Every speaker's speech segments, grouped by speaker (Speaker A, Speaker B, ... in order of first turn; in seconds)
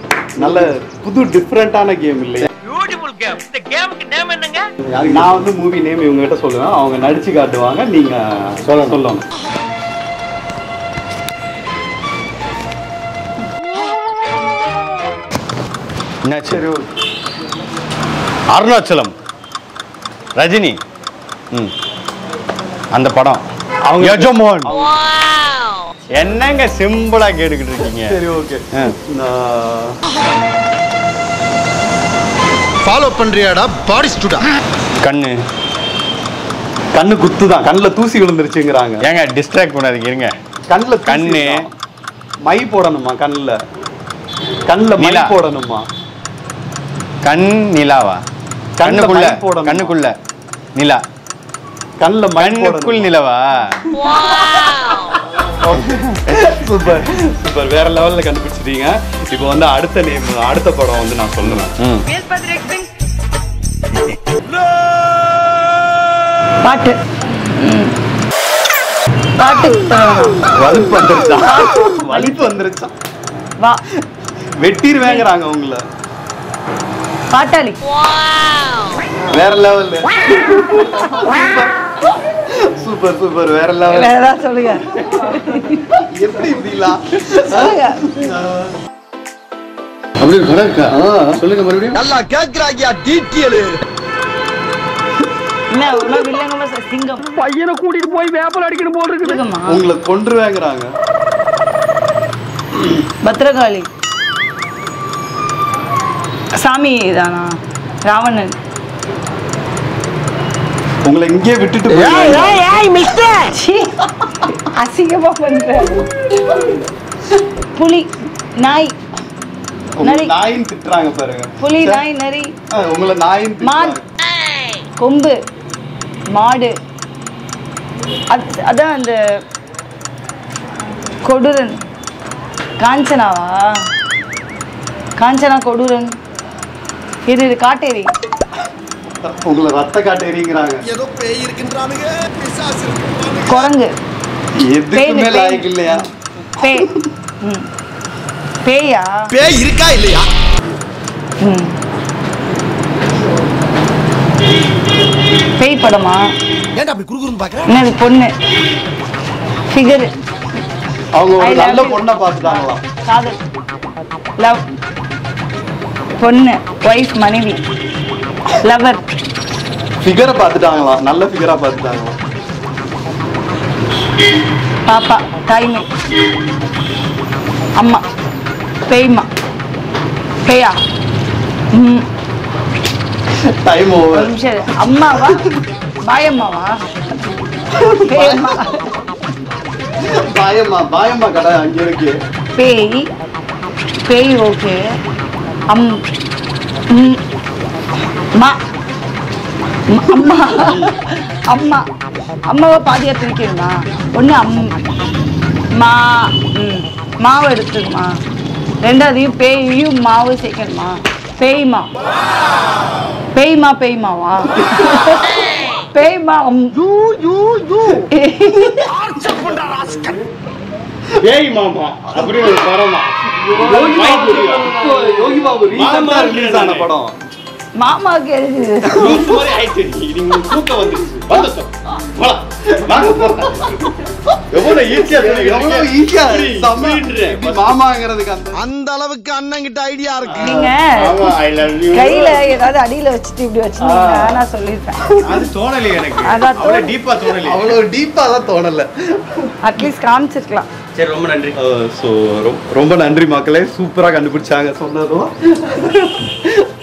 Speaker A: 0.4-2.5, 5.1-9.2, 16.5-16.9, 23.8-24.9, 28.1-29.9, 36.9-39.0, 40.7-41.7, 42.4-43.6, 44.7-45.9, 48.8-49.9, 52.0-53.1, 55.4-61.7, 70.6-72.9, 74.6-75.8, 79.3-81.8, 82.5-84.1, 85.9-88.7, 90.9-91.4, 99.7-100.9, 111.0-113.1, 120.0-122.0, 122.7-124.0, 139.2-140.8, 144.6-146.0, 161.1-162.8, 170.0-172.1, 183.6-184.3, 185.1-185.4, 187.7-188.8, 190.0-192.2, 214.6-214.9, 219.7-220.2, 222.1-222.6, 223.3-227.1, 228.9-229.2, 232.7-233.7, 234.9-238.6, 240.4-240.7, 243.8-244.3, 245.1-245.4, 247.3-249.5, 251.5-256.4
Speaker B: 2.4-5.4, 8.6-9.0, 16.2-16.6, 18.5-19.1, 20.4-20.8, 22.9-23.4, 24.0-24.8, 26.2-28.2, 35.0-35.4, 39.0-40.3, 41.0-41.7, 45.0-45.3, 47.2-48.2, 48.8-50.1, 50.7-51.0, 52.4-53.9, 61.8-62.0, 70.6-71.5, 90.2-92.0, 221.2-226.9, 228.9-233.9, 234.5-237.8, 240.2-242.6, 245.2-247.8, 250.9-251.6
Speaker C: 2.8-4.6, 97.4-99.1
Speaker D: 32.8-34.4, 91.9-93.8, 97.4-98.8, 112.5-113.4, 140.8-143.7, 149.3-150.3, 156.7-157.8, 216.8-218.0, 218.9-220.1, 238.5-240.5
Speaker E: 62.1-62.8, 66.6-67.9, 69.4-70.5, 71.4-72.5, 75.0-75.2, 77.3-77.9, 83.9-85.9, 87.3-88.2, 95.7-97.3, 99.2-99.8, 103.2-103.9, 106.5-107.5, 108.0-108.5, 113.2-116.7, 117.6-119.0, 120.0-120.3, 121.6-122.5, 123.6-124.0, 125.0-125.3, 126.3-126.7, 128.3-129.2, 131.2-131.8, 132.8-133.6, 135.2-136.1, 137.3-138.1, 143.5-143.9, 144.9-145.9, 146.6-146.9, 148.6-149.1, 151.4-151.7, 155.6-156.2, 157.6-158.3, 159.7-160.1, 161.4-162.1, 163.0-163.4, 166.2-167.6, 168.6-169.0, 174.8-175.9, 177.8-178.0, 178.9-179.3, 180.4-180.8, 181.7-182.1, 184.1-185.4, 186.1-186.8, 188.1-188.9, 192.6-193.1, 194.1-194.8, 195.7-196.0, 196.9-197.2, 199.9-201.8, 202.5-204.8, 205.8-208.1, 208.8-211.9, 213.3-215.4, 215.9-216.8, 218.1-218.9, 227.8-229.2, 240.4-241.3, 241.9-245.0, 246.2-246.9, 249.6-250.7